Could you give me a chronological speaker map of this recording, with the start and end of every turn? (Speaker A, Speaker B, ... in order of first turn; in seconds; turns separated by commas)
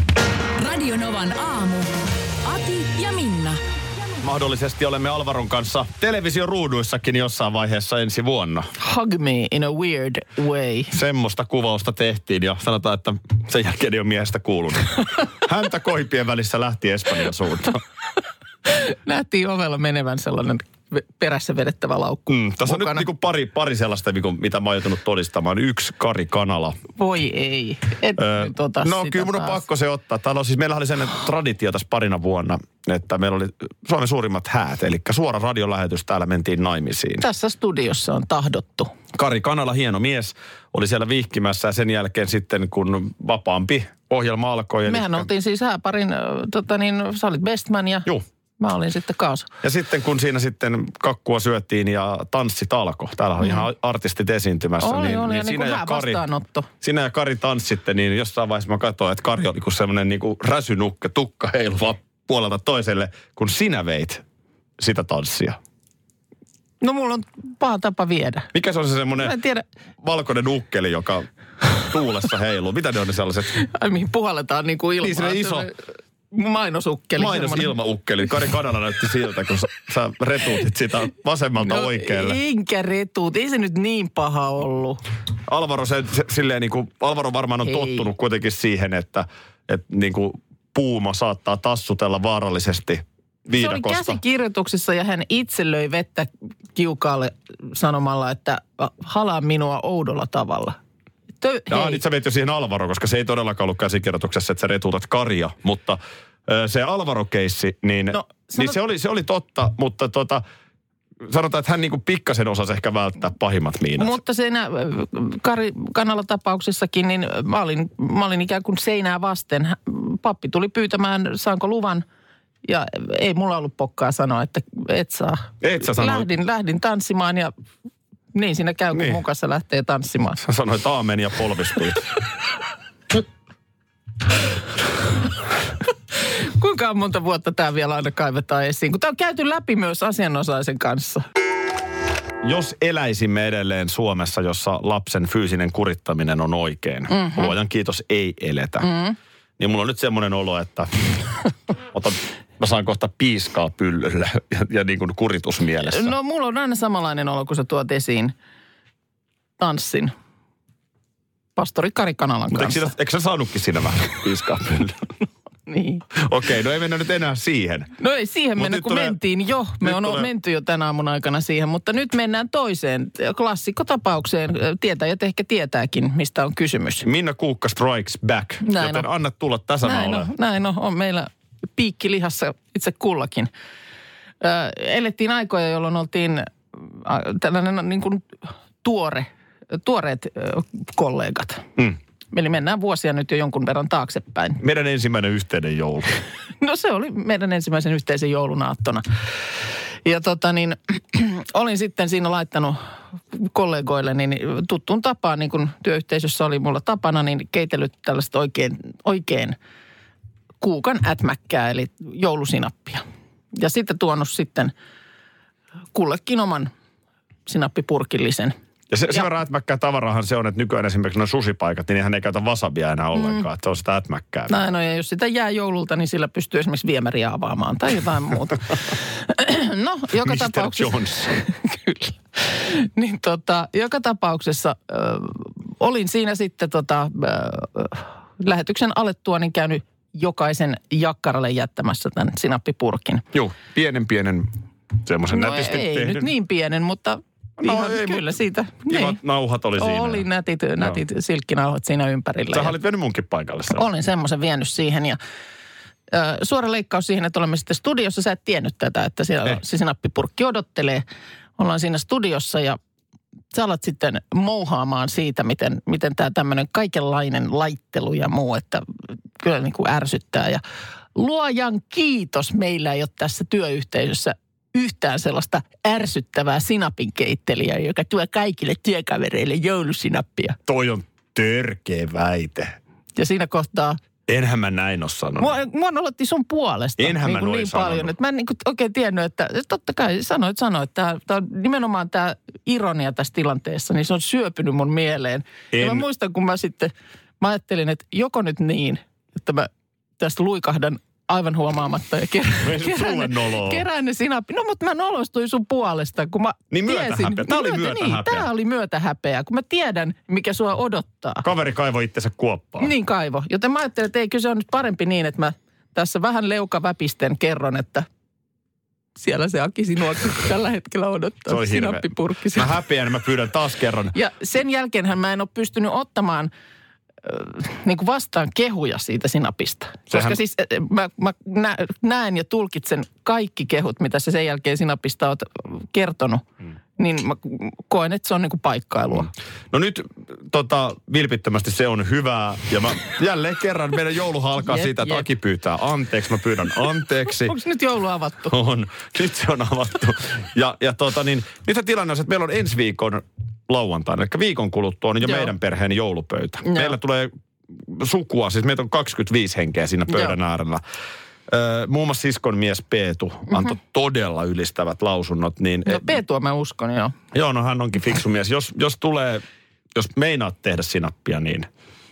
Speaker A: 0.6-1.9, Speaker A: 2.4-3.6, Speaker B: 4.2-8.7, Speaker C: 8.8-10.9, Speaker B: 10.9-17.8, Speaker C: 18.6-23.1, Speaker B: 22.3-26.8, Speaker C: 27.0-29.6, Speaker B: 28.2-37.2, Speaker C: 37.2-38.9, Speaker B: 39.1-45.3, Speaker C: 44.9-49.5, Speaker B: 49.6-56.2, Speaker C: 54.8-56.7, Speaker B: 56.8-64.2, Speaker B: 64.8-65.6, Speaker C: 66.8-68.5, Speaker B: 68.5-69.4, Speaker C: 69.2-69.6, Speaker B: 70.0-71.3, Speaker B: 71.8-73.5, Speaker C: 73.5-75.8, Speaker B: 75.0-75.7, Speaker C: 76.3-77.7, Speaker B: 77.2-82.4, Speaker C: 81.6-85.0, Speaker B: 85.5-94.2, Speaker C: 87.6-88.1, Speaker C: 93.5-100.8, Speaker C: 101.4-102.0, Speaker B: 101.7-110.4, Speaker C: 108.1-108.8, Speaker B: 111.2-114.2, Speaker C: 114.0-122.0, Speaker C: 122.6-127.5, Speaker B: 125.6-126.3, Speaker C: 128.3-130.4, Speaker B: 128.9-129.2, Speaker B: 130.4-132.0, Speaker C: 136.3-141.2, Speaker B: 142.4-148.9, Speaker C: 147.1-147.5, Speaker C: 148.8-149.2, Speaker B: 149.6-151.2, Speaker B: 151.9-156.1, Speaker C: 155.8-158.3, Speaker C: 159.6-160.1, Speaker C: 161.6-162.9, Speaker B: 162.5-165.1, Speaker C: 165.7-166.0, Speaker B: 166.2-167.9, Speaker C: 168.0-177.1, Speaker B: 168.6-169.2, Speaker B: 169.8-170.3, Speaker B: 177.0-180.3, Speaker C: 178.6-179.1, Speaker C: 179.8-183.5, Speaker C: 184.4-188.3, Speaker C: 188.8-191.7, Speaker C: 192.3-194.6, Speaker B: 194.6-196.1, Speaker C: 196.6-199.0, Speaker C: 200.0-202.8, Speaker C: 203.3-209.6, Speaker C: 210.6-213.0, Speaker C: 213.5-214.7, Speaker C: 215.9-216.7, Speaker C: 217.5-218.5, Speaker B: 218.9-224.6, Speaker C: 223.2-223.4, Speaker C: 224.5-243.2, Speaker B: 230.2-231.4, Speaker B: 243.3-244.5, Speaker B: 245.0-246.3, Speaker C: 245.3-249.2, Speaker B: 247.6-248.3, Speaker B: 248.9-250.2, Speaker C: 249.8-252.7, Speaker B: 252.5-253.8, Speaker C: 253.7-255.2, Speaker C: 256.1-261.0, Speaker C: 261.6-262.8, Speaker C: 263.5-268.8, Speaker C: 269.4-270.6, Speaker C: 271.1-280.6, Speaker B: 280.7-282.8, Speaker C: 283.1-284.0, Speaker B: 284.3-285.5, Speaker C: 285.4-311.4, Speaker B: 287.0-288.1, Speaker B: 295.7-296.0, Speaker B: 302.6-303.8, Speaker B: 306.7-308.5, Speaker B: 311.4-312.9, Speaker C: 312.8-318.1, Speaker C: 319.2-322.8, Speaker B: 321.5-324.1, Speaker C: 324.1-326.5, Speaker C: 327.2-336.4, Speaker B: 330.1-330.4, Speaker C: 337.0-339.3, Speaker B: 339.1-347.5, Speaker C: 344.6-345.2, Speaker C: 347.3-348.5, Speaker B: 348.5-360.8, Speaker C: 355.2-355.5, Speaker C: 356.6-356.9, Speaker C: 360.1-360.3, Speaker B: 361.5-366.2, Speaker C: 365.9-367.1, Speaker B: 367.3-369.4, Speaker B: 369.9-371.7